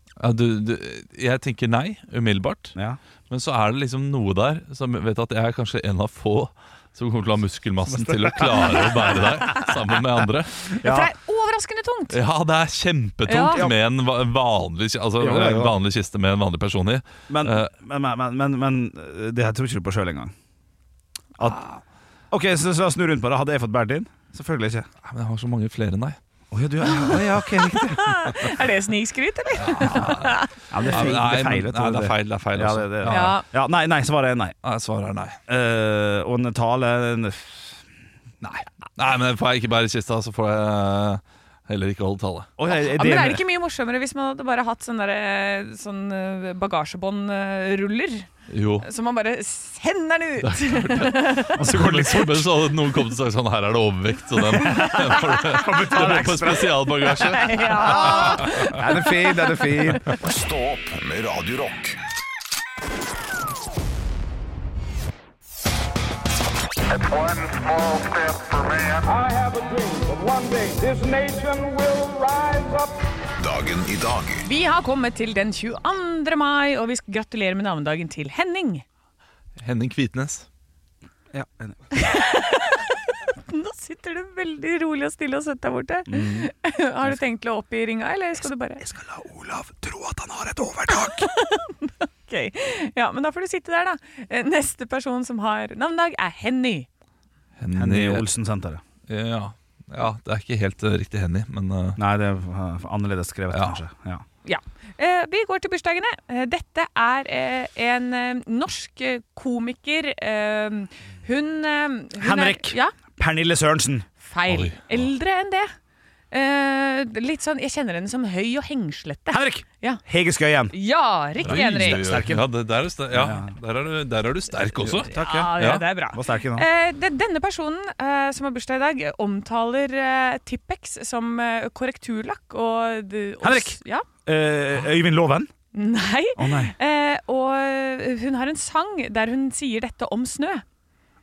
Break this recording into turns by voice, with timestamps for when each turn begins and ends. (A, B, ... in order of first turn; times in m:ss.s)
0:00.2-0:02.8 A
0:03.3-0:10.7 A
0:07.9-0:09.3 B
0:10.8-0:11.1 B
0:10.8-0:12.2 C
0:12.1-0:17.7 A
0:13.3-0:13.7 C
0:15.2-0:15.8 B
0:17.3-0:20.3 B
0:21.4-0:21.7 B
0:21.5-0:21.8 A
0:22.3-0:24.9 B
0:25.0-0:26.2 A
0:26.5-0:28.5 B
0:26.8-0:30.5 C
0:29.6-0:30.4 A
0:29.8-0:30.1 B
0:30.7-0:34.6 B
0:30.9-0:33.4 A
0:33.1-0:33.4 C
0:34.6-0:35.4 A
0:35.5-0:37.8 B
0:38.4-0:42.5 A
0:42.6-0:43.4 B
0:42.7-0:48.3 C
0:48.5-0:48.9 A
0:48.8-0:51.6 C
0:50.4-0:58.8 A
0:51.6-0:52.6 B
0:54.6-1:00.1 B
0:54.6-0:55.6 C
0:57.2-1:00.1 C
1:00.2-1:02.0 D
1:07.0-1:07.6 E
1:09.0-1:12.9 E
1:13.4-1:14.4 D
1:14.4-1:18.8 C
1:19.6-1:20.5 A
1:21.3-1:21.8 B
1:21.9-1:28.8 C
1:26.1-1:26.5 B
1:28.8-1:31.3 B
1:30.9-1:36.9 C
1:37.6-1:38.3 A
1:37.7-1:38.8 B
1:39.1-1:42.0 A
1:42.0-1:44.2 B
1:43.5-1:43.8 A
1:44.4-1:52.9 C
1:52.2-1:54.1 B
1:54.2-1:55.7 C
1:54.5-1:55.0 A
1:56.3-2:00.0 C
1:59.3-2:00.7 B
2:00.7-2:02.2 C
2:01.4-2:02.5 B
2:01.4-2:05.8 A
2:03.1-2:03.5 B
2:04.8-2:05.6 B
2:05.2-2:14.1 C
2:06.1-2:06.7 B
2:13.4-2:15.5 B
2:15.7-2:20.6 C
2:16.4-2:16.8 B